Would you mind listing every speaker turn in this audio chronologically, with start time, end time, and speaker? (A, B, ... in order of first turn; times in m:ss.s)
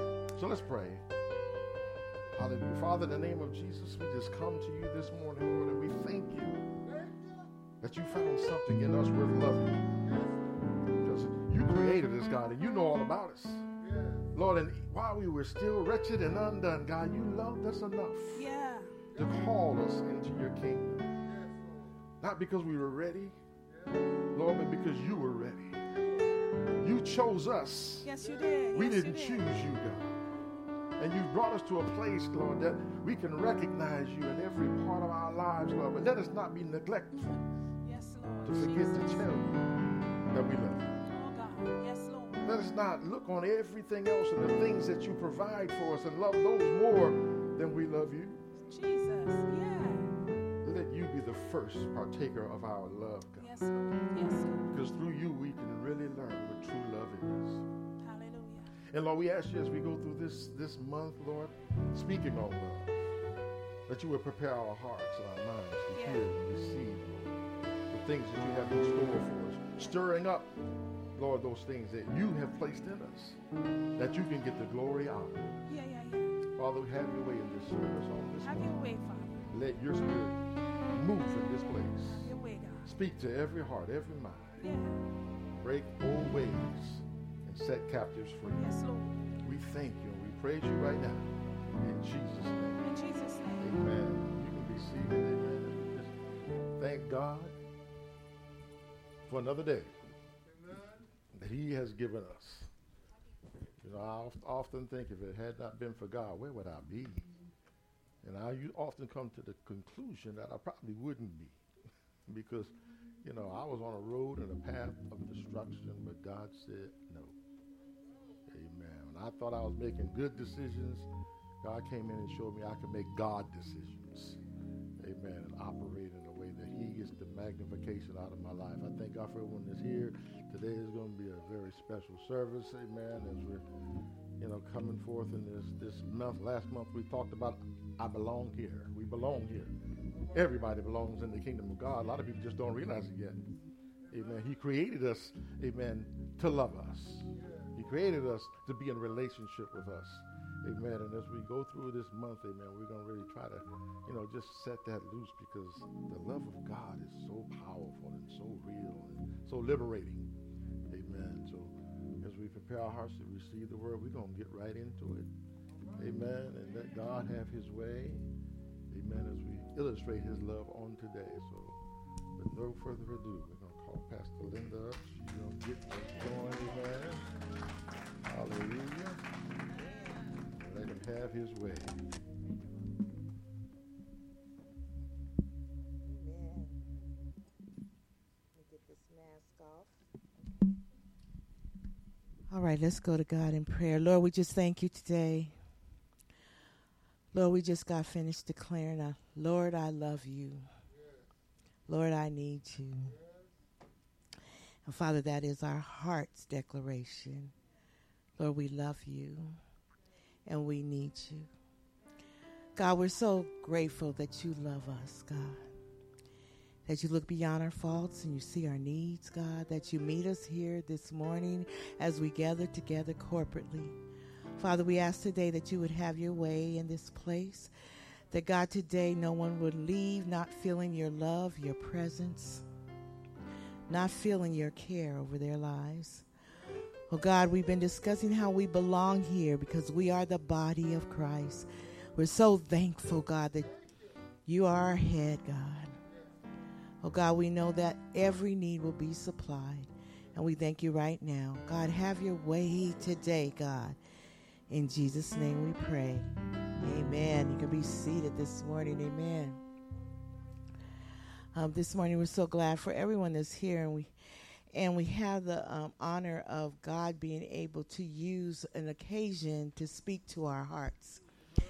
0:00.3-0:01.0 A
0:02.3-0:06.6 A
0:07.8-0:10.0 A
0:11.0-0:13.7 A
0:14.3-0:18.5 A
0:18.3-0:19.0 B
0:19.1-0:21.1 A
0:22.2-0:23.4 A
0:24.3-0:25.8 A
0:26.8-0:28.1 A
0:28.0-0:29.5 B
0:28.7-0:30.1 A
0:31.0-0:37.3 A
0:37.8-0:39.4 B
0:38.4-0:39.6 A
0:40.3-0:40.9 A
0:41.1-0:42.5 B
0:42.4-0:48.4 A
0:48.7-0:50.1 B
0:50.6-0:53.5 A
0:53.4-0:54.7 B
0:54.7-0:57.6 A
0:58.0-0:58.7 B
0:58.9-1:03.1 A
1:03.9-1:07.3 A
1:06.0-1:06.2 B
1:07.9-1:10.5 A
1:11.2-1:13.4 A
1:14.0-1:15.6 A
1:15.7-1:16.4 B
1:16.6-1:18.8 A
1:18.4-1:19.5 B
1:19.5-1:22.3 A
1:22.0-1:22.9 B
1:22.8-1:24.6 A
1:24.6-1:25.0 B
1:25.5-1:28.7 A
1:28.4-1:29.3 B
1:29.4-1:32.8 A
1:32.8-1:33.7 B
1:33.6-1:36.1 A
1:36.8-1:37.5 A
1:39.2-1:39.9 A
1:41.3-1:42.7 A
1:43.8-1:47.2 A
1:48.2-1:51.6 A
1:52.3-1:57.4 A
1:58.5-2:01.1 A
2:01.6-2:04.4 A
2:05.0-2:13.6 A
2:14.4-2:19.8 A
2:20.3-2:23.5 A
2:24.1-2:40.3 A
2:40.9-2:45.3 A
2:46.0-2:48.3 A
2:48.9-2:51.8 A
2:52.3-2:57.2 A
2:58.2-2:59.2 A
3:00.5-3:02.0 A
3:06.0-3:06.8 C
3:08.6-3:09.9 C
3:12.5-3:15.5 C
3:17.3-3:20.6 C
3:21.9-3:23.2 C
3:24.8-3:27.5 C
3:28.4-3:29.6 C
3:30.5-3:31.5 C
3:32.8-3:35.6 C
3:36.8-3:44.0 C
3:44.6-3:47.7 C
3:48.3-3:52.6 C
3:53.9-3:56.2 C
3:57.1-4:03.7 C
4:04.5-4:06.0 C
4:07.0-4:14.0 C
4:14.7-4:16.3 C
4:16.8-4:19.6 C
4:21.5-4:24.1 C
4:24.7-4:31.2 C